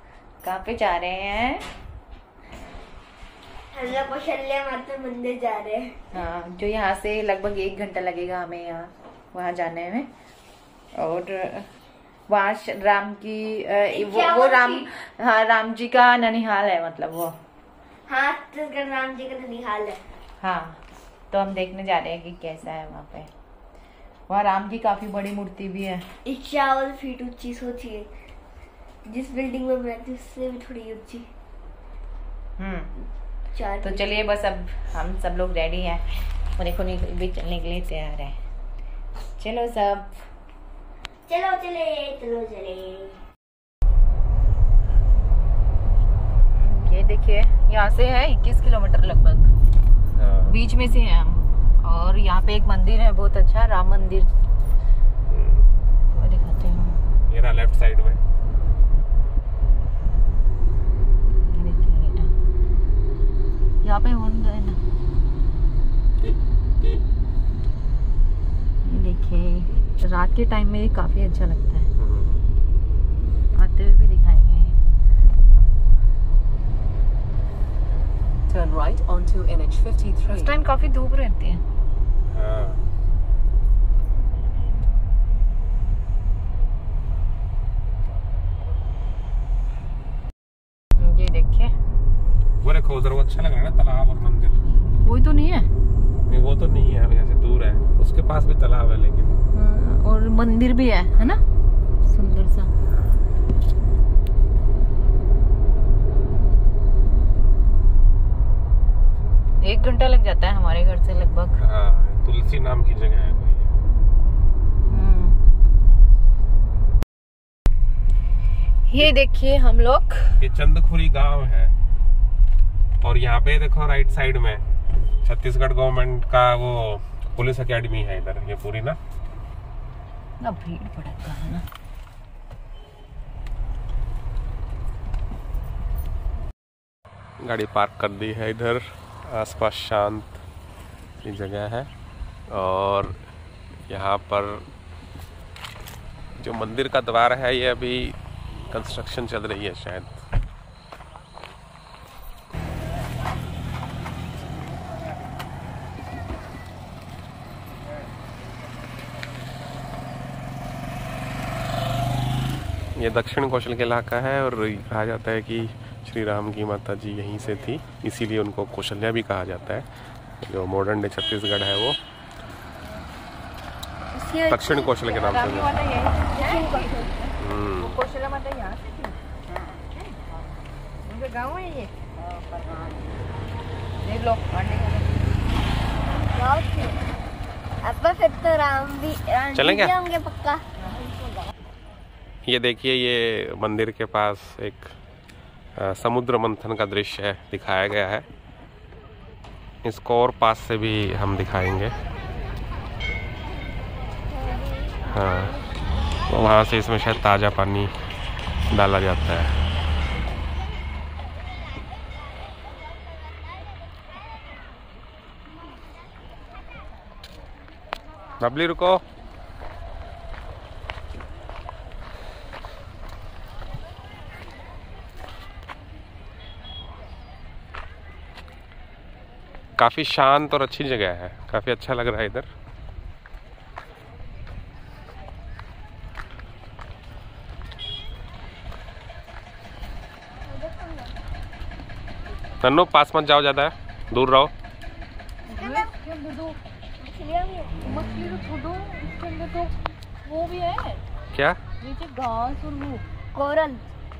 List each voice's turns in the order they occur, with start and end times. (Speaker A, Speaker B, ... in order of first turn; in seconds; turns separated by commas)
Speaker A: 0.4-1.6, Speaker B: 3.7-6.0, Speaker A: 6.1-10.1, Speaker A: 10.9-11.7, Speaker A: 12.3-17.4, Speaker B: 13.9-14.9, Speaker B: 18.1-20.0, Speaker A: 20.4-23.3, Speaker A: 24.3-26.1, Speaker B: 26.2-28.1, Speaker B: 29.0-31.3, Speaker A: 32.6-32.9, Speaker B: 33.5-34.0, Speaker A: 33.8-38.4, Speaker A: 39.4-40.2, Speaker B: 41.3-43.2, Speaker A: 46.5-49.5, Speaker C: 50.1-50.5, Speaker A: 50.5-54.3, Speaker C: 55.3-55.7, Speaker A: 56.1-57.0, Speaker C: 57.3-58.2, Speaker A: 61.4-62.3, Speaker A: 63.8-64.8, Speaker A: 68.8-71.9, Speaker C: 72.0-72.4, Speaker A: 73.5-74.8, Speaker A: 78.5-81.6, Speaker C: 82.3-82.8, Speaker A: 91.0-91.7, Speaker C: 92.6-94.6, Speaker A: 95.0-95.7, Speaker C: 96.3-99.3, Speaker A: 99.5-101.4, Speaker A: 102.0-102.7, Speaker A: 109.6-111.6, Speaker C: 111.6-113.7, Speaker A: 114.9-115.4, Speaker A: 118.9-120.4, Speaker C: 120.4-121.7, Speaker C: 123.0-124.6, Speaker C: 125.2-129.0, Speaker A: 130.4-131.6, Speaker C: 137.4-140.4, Speaker C: 141.2-141.9, Speaker C: 142.5-143.2, Speaker C: 143.9-144.6, Speaker C: 146.4-150.2, Speaker C: 162.9-169.9, Speaker C: 170.4-172.0, Speaker B: 174.1-175.0, Speaker C: 174.5-175.7, Speaker A: 175.1-180.5, Speaker B: 176.3-177.1, Speaker C: 177.4-177.9, Speaker A: 181.1-182.9, Speaker A: 184.0-185.1, Speaker B: 186.3-187.0, Speaker B: 187.8-190.6, Speaker C: 189.5-189.9, Speaker C: 192.4-194.9, Speaker C: 195.8-198.2, Speaker C: 199.8-201.9, Speaker B: 204.3-205.0, Speaker C: 205.1-205.6, Speaker C: 206.3-207.9, Speaker C: 208.7-209.6, Speaker C: 218.4-219.0, Speaker C: 229.8-232.5, Speaker B: 240.4-241.2, Speaker C: 242.6-244.5, Speaker A: 245.5-246.6, Speaker B: 245.5-245.9, Speaker B: 247.0-247.8, Speaker A: 247.8-249.7, Speaker A: 250.2-251.0, Speaker C: 251.3-251.6, Speaker A: 251.8-253.0, Speaker B: 253.3-253.8